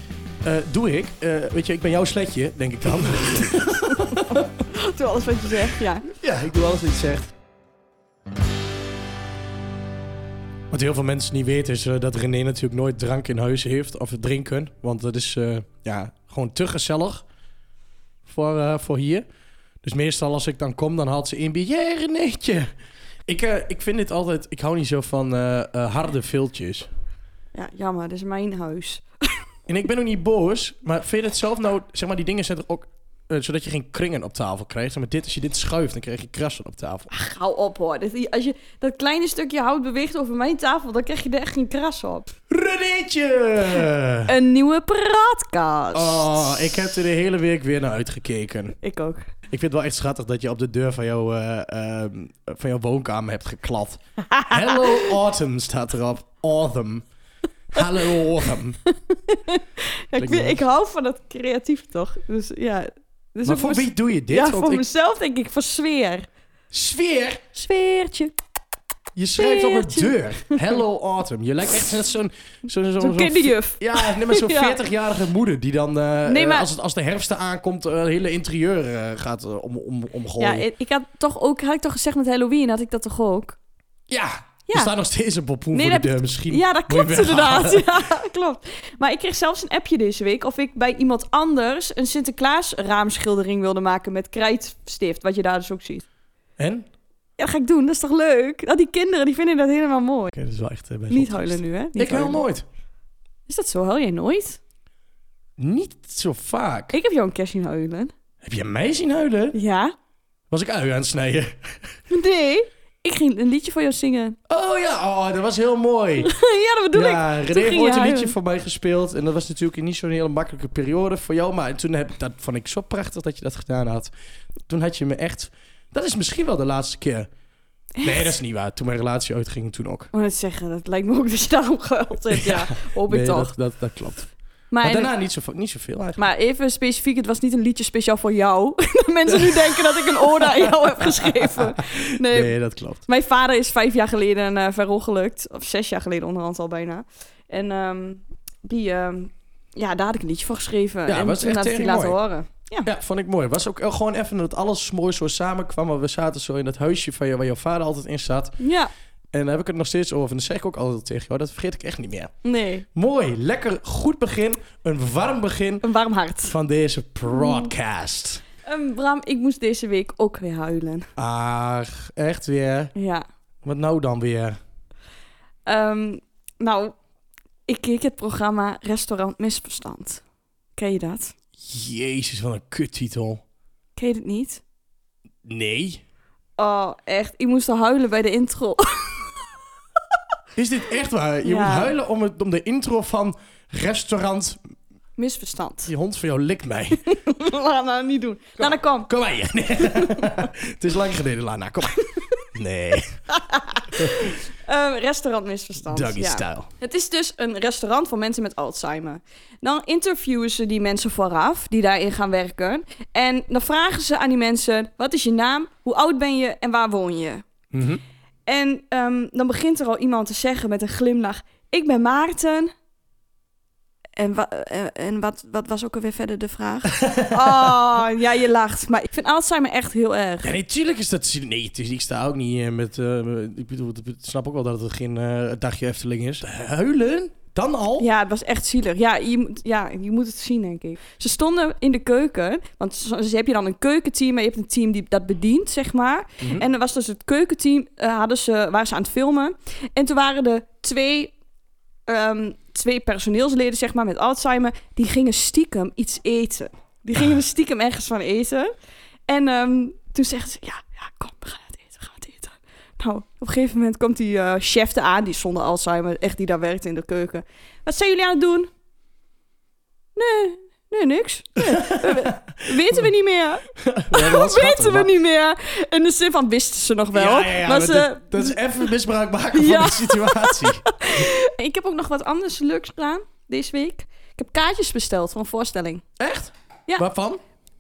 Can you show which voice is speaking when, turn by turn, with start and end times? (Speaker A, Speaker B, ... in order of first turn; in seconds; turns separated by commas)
Speaker A: 0.4-4.5, Speaker B: 4.0-6.1, Speaker A: 6.1-7.3, Speaker A: 10.7-17.2, Speaker A: 18.2-19.2, Speaker A: 19.8-22.7, Speaker A: 23.3-26.9, Speaker B: 27.5-29.1, Speaker A: 29.7-37.1, Speaker B: 37.1-42.3, Speaker A: 42.5-44.3, Speaker B: 43.8-46.8, Speaker A: 45.9-48.8, Speaker B: 48.8-49.3, Speaker A: 49.5-57.1, Speaker B: 54.4-55.2, Speaker A: 57.7-58.8, Speaker B: 58.9-66.3, Speaker A: 60.2-60.6, Speaker A: 63.5-64.8, Speaker A: 66.7-67.5, Speaker B: 67.5-68.3, Speaker A: 69.2-80.7, Speaker B: 69.4-70.8, Speaker B: 73.0-74.8, Speaker B: 76.3-76.7, Speaker B: 80.4-83.6, Speaker A: 84.1-87.9, Speaker B: 84.7-84.9, Speaker B: 85.7-96.0, Speaker A: 96.6-96.9, Speaker B: 97.4-100.3, Speaker A: 100.3-102.7, Speaker B: 101.1-102.4, Speaker B: 103.5-104.6, Speaker A: 105.6-107.0, Speaker B: 106.9-108.1, Speaker A: 108.4-109.6, Speaker B: 109.5-110.0, Speaker A: 110.5-111.8, Speaker B: 112.1-114.4, Speaker A: 114.5-116.3, Speaker B: 116.2-118.4, Speaker A: 116.9-124.1, Speaker A: 124.7-127.3, Speaker B: 128.0-128.3, Speaker A: 128.0-130.1, Speaker B: 130.1-133.5, Speaker A: 132.4-134.3, Speaker B: 134.7-135.1, Speaker A: 134.8-136.2, Speaker B: 136.2-142.5, Speaker A: 139.3-143.0, Speaker B: 143.1-152.9, Speaker A: 151.1-152.2, Speaker A: 152.8-158.6, Speaker B: 158.6-158.9, Speaker A: 159.3-162.3, Speaker B: 162.4-162.9, Speaker A: 162.9-165.8, Speaker B: 165.8-166.6, Speaker A: 166.5-168.4, Speaker B: 167.3-167.7, Speaker B: 168.7-171.1, Speaker A: 171.2-172.9, Speaker B: 172.9-173.3, Speaker A: 173.7-174.6, Speaker B: 175.7-176.9, Speaker B: 177.7-180.2, Speaker B: 180.8-181.3, Speaker A: 181.6-183.4, Speaker B: 184.0-184.6, Speaker A: 185.4-186.0, Speaker B: 186.6-189.3, Speaker A: 190.6-194.6, Speaker B: 191.4-191.9, Speaker B: 195.2-195.9, Speaker A: 195.9-197.1, Speaker B: 197.1-199.1, Speaker A: 198.6-203.2, Speaker B: 199.8-200.3, Speaker B: 202.0-202.3, Speaker B: 203.3-217.4, Speaker A: 203.9-204.3, Speaker A: 205.8-206.7, Speaker A: 217.7-218.0, Speaker B: 218.5-222.7, Speaker B: 224.2-230.5, Speaker A: 227.0-227.7, Speaker A: 230.4-238.1, Speaker B: 238.0-251.3, Speaker B: 252.1-258.7, Speaker B: 259.3-268.7, Speaker B: 270.2-278.9, Speaker A: 271.7-273.0, Speaker A: 273.8-275.1, Speaker A: 277.1-281.2, Speaker B: 279.5-286.0, Speaker A: 286.2-287.4